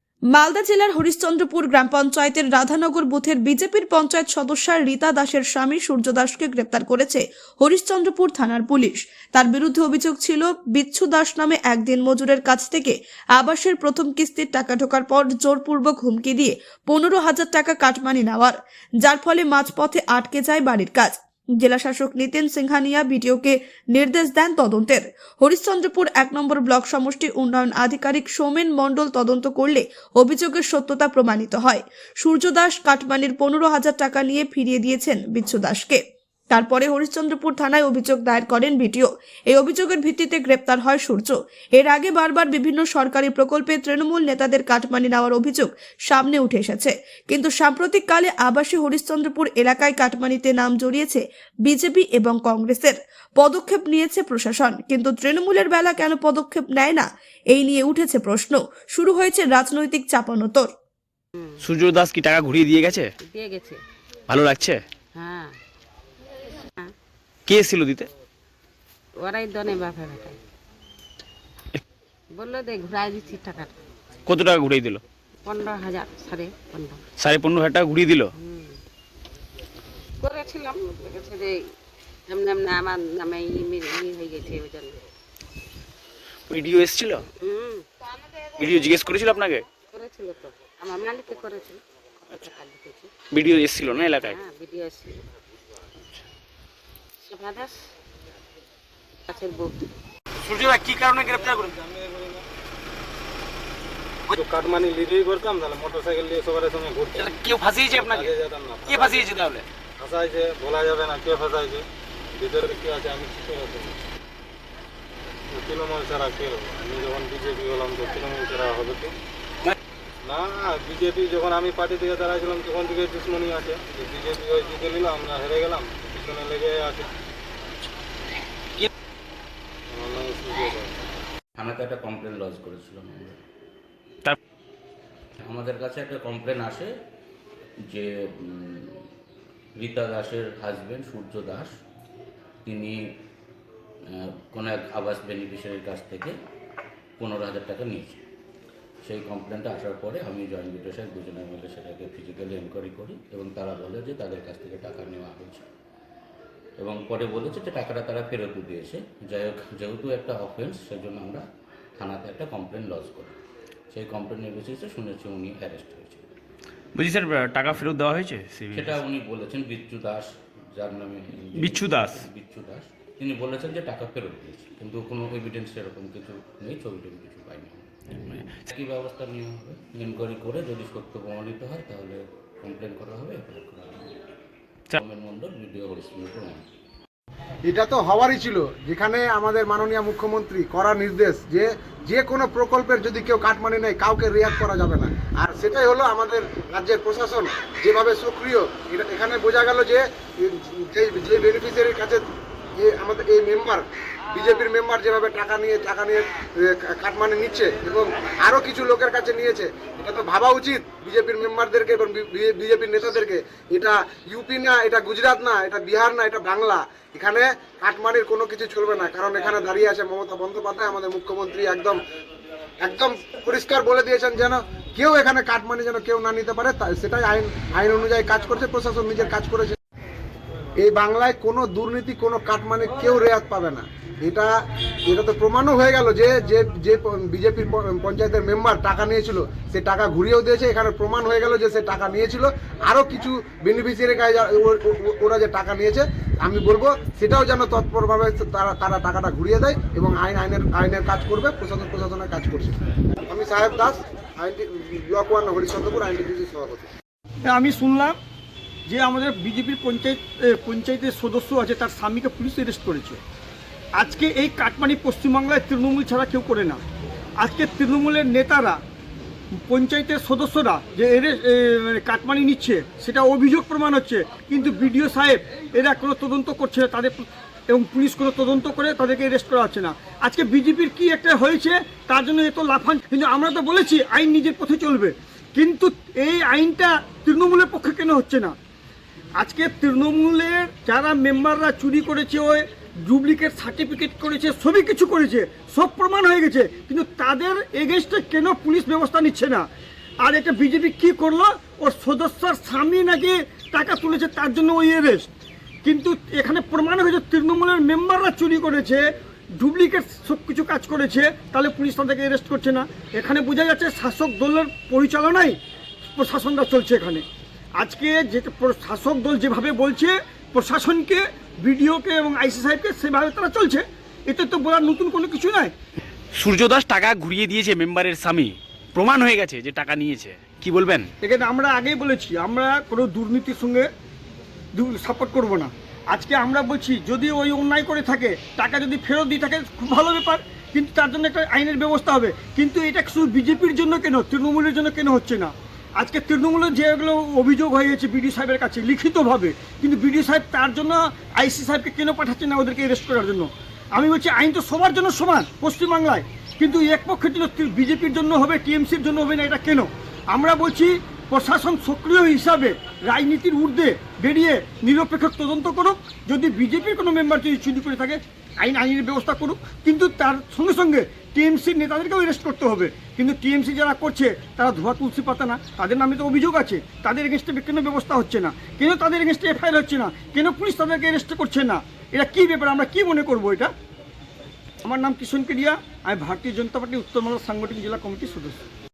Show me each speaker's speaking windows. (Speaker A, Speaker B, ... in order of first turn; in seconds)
Speaker A: 0.3-60.7
Speaker B: 61.6-63.1, 64.3-64.8, 67.5-68.1, 74.2-75.0, 77.2-78.3, 86.5-87.2, 88.6-89.6, 93.3-94.4, 100.5-101.7, 107.2-108.3, 108.9-109.6, 166.9-169.0, 171.6-172.2, 326.3-331.1
Speaker C: 63.2-63.8, 65.1-65.5, 69.2-70.4, 72.3-73.8, 75.4-77.0, 78.4-78.8, 80.2-81.6, 82.3-85.0, 87.4-87.9, 89.8-91.8, 92.3-93.1, 94.2-95.2, 97.3-97.7, 99.3-99.9
Speaker D: 101.2-102.4, 104.3-107.3, 107.9-109.3, 110.0-111.8, 112.4-114.0, 115.5-119.1, 120.2-127.1, 129.9-131.0
Speaker E: 131.6-133.4, 135.4-136.9, 137.9-139.1, 139.8-141.7, 142.6-143.1, 144.1-146.3, 147.2-148.2, 149.0-155.7, 156.8-161.4, 162.0-163.4, 163.9-166.2, 168.7-177.9, 178.4-184.1, 184.9-186.7
Speaker F: 187.7-202.2, 202.8-222.0, 222.8-229.8, 230.8-234.5, 235.1-256.9
Speaker G: 257.4-258.1, 258.9-263.2, 263.9-266.8, 267.4-268.8, 269.5-288.5, 289.4-299.7, 300.2-305.3, 305.8-309.1, 309.6-315.6, 316.1-317.2, 317.8-325.7, 331.2-333.9, 334.7-383.7, 384.8-388.6